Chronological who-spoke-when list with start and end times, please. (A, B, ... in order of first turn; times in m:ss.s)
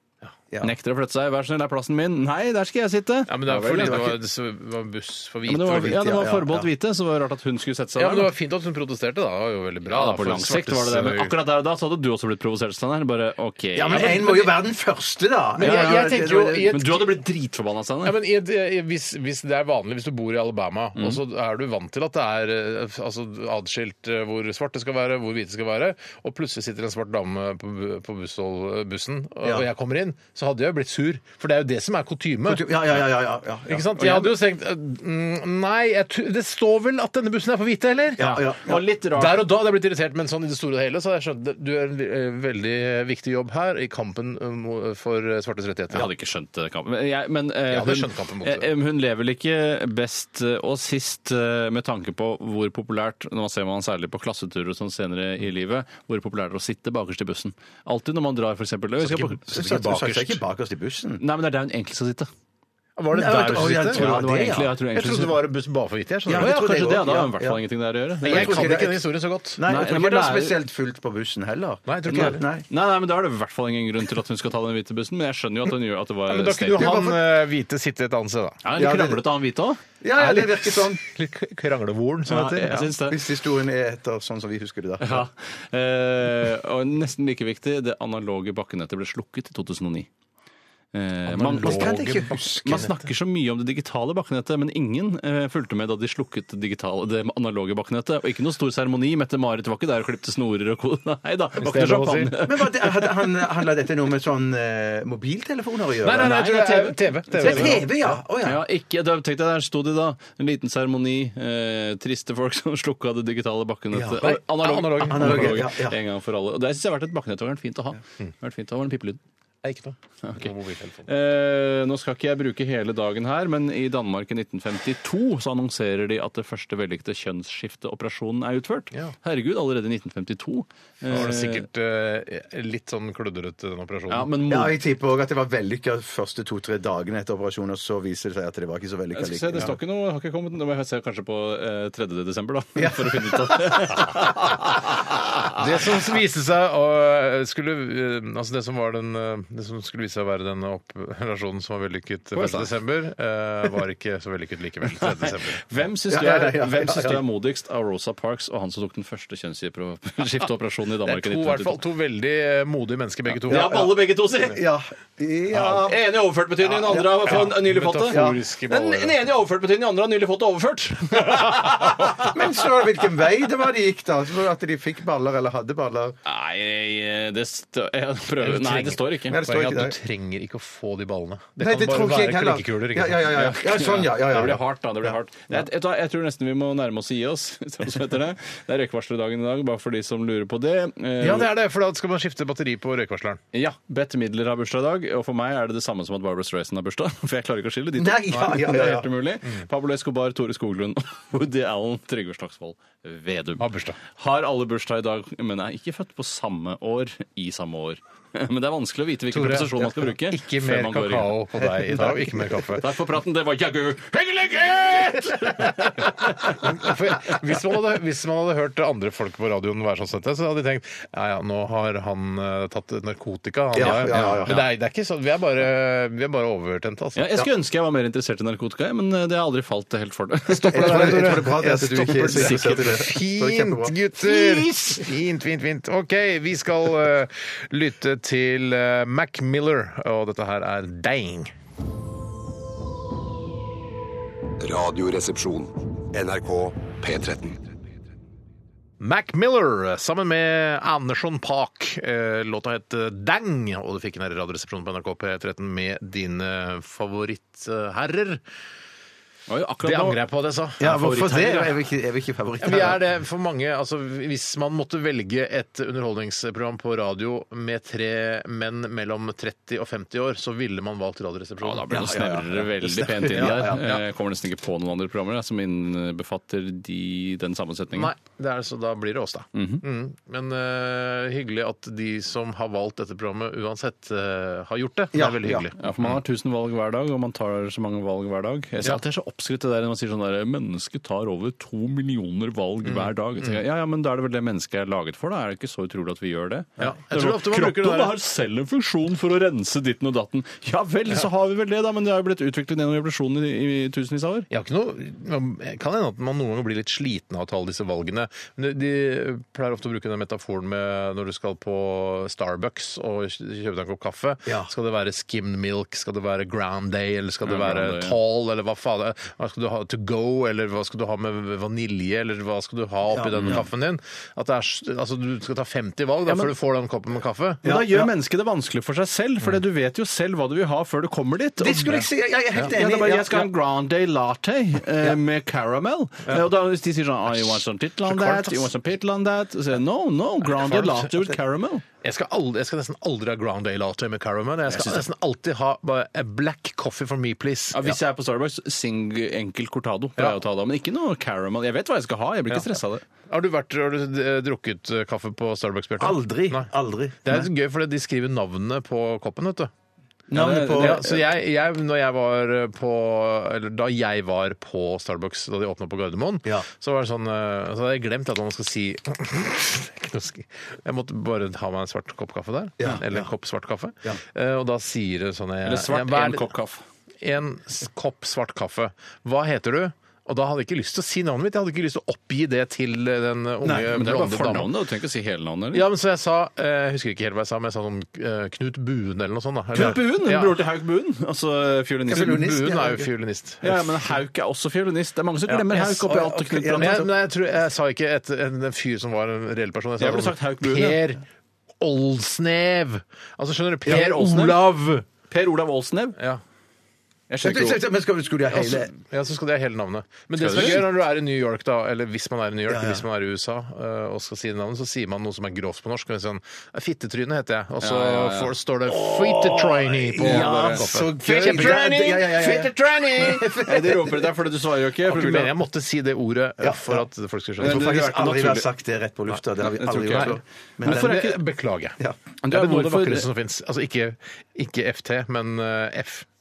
0:00.6-0:04.1 A
0:03.3-0:06.2 B
0:03.7-0:04.1 C
0:05.5-0:08.3 A
0:05.8-0:06.7 C
0:08.0-0:11.3 B
0:09.9-0:14.5 A
0:13.7-0:16.8 C
0:15.6-0:17.2 B
0:15.6-0:16.0 A
0:16.6-0:18.2 A
0:18.0-0:32.7 B
0:32.5-0:34.3 C
0:33.7-0:38.4 B
0:38.2-0:38.8 C
0:38.2-0:39.4 A
0:39.1-0:46.1 B
0:45.9-0:59.4 A
0:47.7-0:48.7 B
0:59.0-1:00.4 B
0:59.4-1:01.2 C
1:01.2-1:02.3 A
1:03.0-1:04.1 B
1:03.1-1:04.7 C
1:03.5-1:05.4 A
1:04.9-1:06.5 B
1:06.3-1:07.6 C
1:06.3-1:08.8 A
1:08.2-1:09.0 C
1:08.2-1:09.6 B
1:09.6-1:12.6 C
1:09.6-1:10.6 A
1:11.9-1:12.4 B
1:12.1-1:17.0 A
1:16.3-1:18.6 B
1:16.8-1:17.2 C
1:18.6-1:19.8 A
1:18.8-1:19.2 C
1:20.0-1:21.0 C
1:20.2-1:22.9 B
1:22.3-1:23.2 A
1:23.1-1:25.2 C
1:25.0-1:30.1 A
1:30.9-1:32.1 A
1:31.3-1:33.0 B
1:31.5-1:32.9 C
1:32.6-1:43.1 A
1:41.6-1:42.4 B
1:42.4-1:46.4 C
1:46.0-1:48.1 B
1:46.2-1:59.2 A
1:47.4-1:48.6 C
1:53.9-1:54.3 C
1:54.2-1:55.6 B
1:55.0-1:56.0 C
1:59.6-2:01.1 B
2:00.2-2:00.5 A
2:01.0-2:11.6 A
2:11.1-2:14.3 B
2:14.1-2:14.8 A
2:14.5-2:19.7 C
2:19.1-2:25.6 A
2:22.8-2:24.1 C
2:25.5-2:35.6 B
2:32.3-2:32.7 A
2:34.9-2:41.8 A
2:36.1-2:37.2 C
2:41.0-2:43.8 B
2:43.4-2:44.6 A
2:43.5-2:46.0 C
2:45.6-2:52.4 A
2:46.6-2:47.5 C
2:47.2-2:49.1 B
2:48.1-2:48.4 C
2:52.2-2:56.2 C
2:56.2-2:59.4 A
2:58.4-3:03.6 B
2:59.3-3:00.0 C
3:01.6-3:05.1 C
3:03.3-3:11.5 A
3:11.2-3:13.4 B
3:13.5-3:31.4 A
3:18.0-3:19.1 C
3:23.6-3:24.0 B
3:29.3-3:32.8 B
3:31.8-3:32.6 C
3:32.7-3:36.7 A
3:35.2-3:47.3 B
3:43.7-3:44.6 C
3:47.2-3:51.3 A
3:50.5-4:01.5 B
3:50.7-3:54.0 C
3:52.1-3:53.0 A
3:54.2-3:55.1 A
4:04.6-4:07.6 D
4:09.0-4:18.4 B
4:19.5-4:20.2 A
4:19.8-4:21.0 B
4:20.8-4:21.8 A
4:20.8-4:23.0 C
4:22.6-4:31.9 B
4:31.6-4:38.1 A
4:31.9-4:34.0 C
4:37.9-4:46.2 B
4:39.5-4:39.8 A
4:45.1-4:45.7 C
4:45.8-5:04.5 A
4:52.9-4:53.6 B
4:56.8-4:58.2 B
5:04.5-5:27.6 B
5:17.4-5:18.2 A
5:23.1-5:23.6 C
5:26.3-5:26.5 A
5:27.6-5:41.8 A
5:27.6-5:28.1 C
5:31.6-5:33.5 C
5:37.6-5:38.7 B
5:40.5-5:41.1 B
5:42.0-5:47.9 B
5:44.7-5:45.1 A
5:47.7-5:53.0 A
5:53.3-5:56.7 B
5:56.0-5:57.5 C
5:57.2-5:59.7 B
6:00.3-6:01.0 C
6:00.3-6:01.2 A
6:00.7-6:16.5 B
6:12.8-6:13.3 C
6:15.6-6:16.8 A
6:17.2-6:24.7 B
6:23.6-6:23.9 C
6:23.9-6:25.8 A
6:25.7-6:30.6 B
6:29.7-6:32.4 A
6:32.1-6:33.1 C
6:32.1-6:34.1 B
6:33.6-6:37.0 A
6:35.5-6:36.0 B
6:35.8-6:37.1 C
6:36.8-6:41.2 B
6:40.0-6:41.0 A
6:41.8-6:45.0 B
6:43.8-6:44.6 A
6:45.3-6:46.2 A
6:47.3-6:47.8 A
6:47.4-6:48.9 C
6:48.5-7:03.4 B
6:50.4-6:50.8 A
6:52.7-6:53.0 C
6:57.8-6:58.5 A
6:59.0-7:04.3 C
7:00.2-7:05.5 A
7:05.0-7:07.9 B
7:06.6-7:07.0 C
7:07.6-7:08.7 A
7:07.6-7:11.3 C
7:09.6-7:11.4 A
7:10.1-7:16.2 B
7:12.4-7:13.3 A